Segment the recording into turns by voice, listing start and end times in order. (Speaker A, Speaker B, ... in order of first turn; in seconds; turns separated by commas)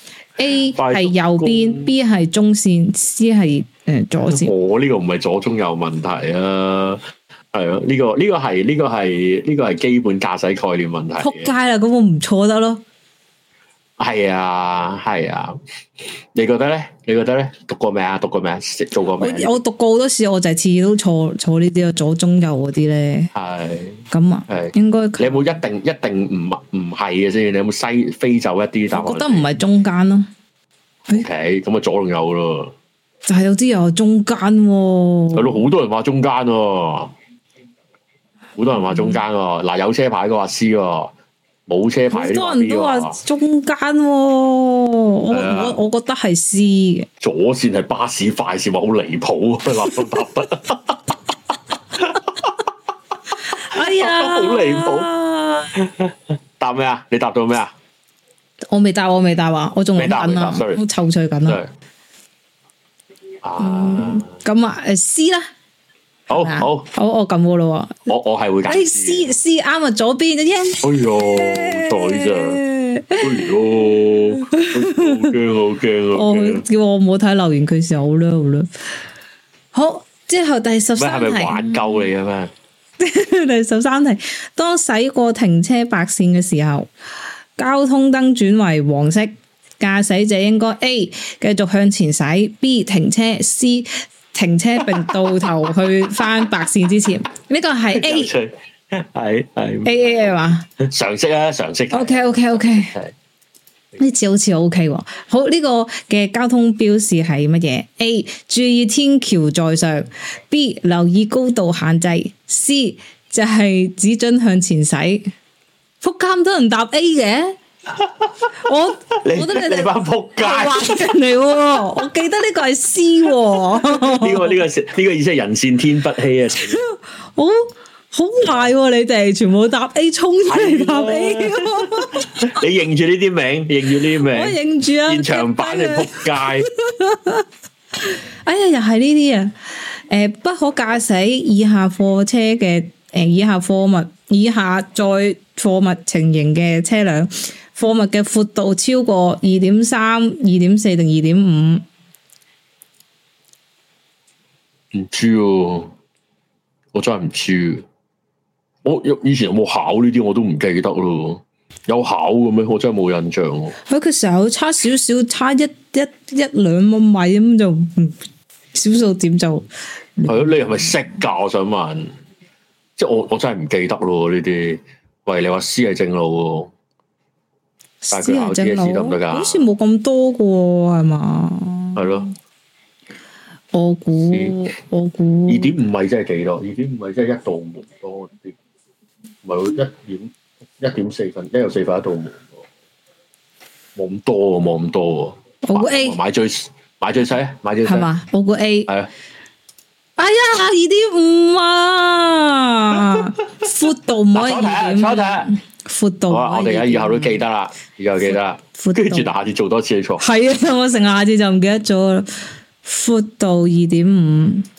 Speaker A: 0.4-4.5, Speaker B: 0.7-1.9, Speaker B: 4.2-11.5, Speaker A: 11.2-12.8, Speaker B: 14.0-15.6, Speaker B: 16.3-19.6, Speaker A: 19.2-23.3, Speaker B: 23.3-29.5, Speaker A: 24.1-25.5, Speaker A: 28.9-30.3, Speaker B: 31.1-32.7, Speaker A: 33.2-35.6, Speaker B: 35.3-37.1, Speaker B: 38.6-41.1, Speaker A: 38.8-39.2, Speaker B: 41.7-43.2, Speaker A: 42.1-47.1, Speaker B: 45.3-45.8, Speaker B: 47.2-51.1, Speaker B: 51.9-52.6, Speaker A: 53.4-55.7, Speaker B: 53.7-55.1, Speaker B: 55.7-57.7, Speaker A: 58.7-61.6, Speaker B: 60.0-60.8, Speaker B: 63.4-64.3, Speaker A: 63.6-65.5, Speaker B: 66.3-66.8, Speaker A: 66.3-68.1, Speaker B: 68.1-69.3, Speaker A: 68.7-73.5, Speaker B: 70.8-72.6, Speaker B: 73.2-76.6, Speaker A: 74.1-75.3, Speaker A: 76.1-78.7, Speaker A: 79.7-81.9, Speaker B: 81.0-82.5, Speaker A: 83.0-86.9, Speaker A: 87.6-98.3, Speaker B: 94.8-95.7, Speaker B: 97.9-103.1, Speaker A: 99.8-100.7, Speaker A: 101.9-102.9, Speaker A: 104.0-115.3, Speaker A: 116.0-117.5, Speaker B: 118.0-118.5, Speaker A: 118.6-124.6, Speaker B: 119.2-121.1, Speaker B: 123.8-126.8, Speaker A: 126.7-132.6, Speaker B: 130.5-136.7, Speaker A: 134.2-137.4, Speaker A: 138.0-151.8, Speaker B: 154.9-155.9, Speaker B: 156.9-157.8, Speaker B: 158.8-163.8, Speaker A: 163.9-168.2, Speaker A: 168.7-171.0, Speaker B: 170.3-172.1, Speaker B: 173.0-176.7, Speaker A: 178.0-182.3, Speaker B: 178.1-179.7, Speaker B: 181.9-182.3, Speaker A: 183.7-185.7, Speaker B: 184.3-184.6, Speaker B: 185.5-188.6, Speaker B: 189.4-192.6, Speaker B: 193.9-198.1, Speaker A: 195.6-196.2, Speaker A: 197.8-198.9, Speaker A: 200.2-207.4, Speaker B: 202.9-203.3, Speaker B: 204.3-205.5, Speaker B: 206.3-210.2, Speaker A: 208.2-209.3, Speaker A: 210.2-214.7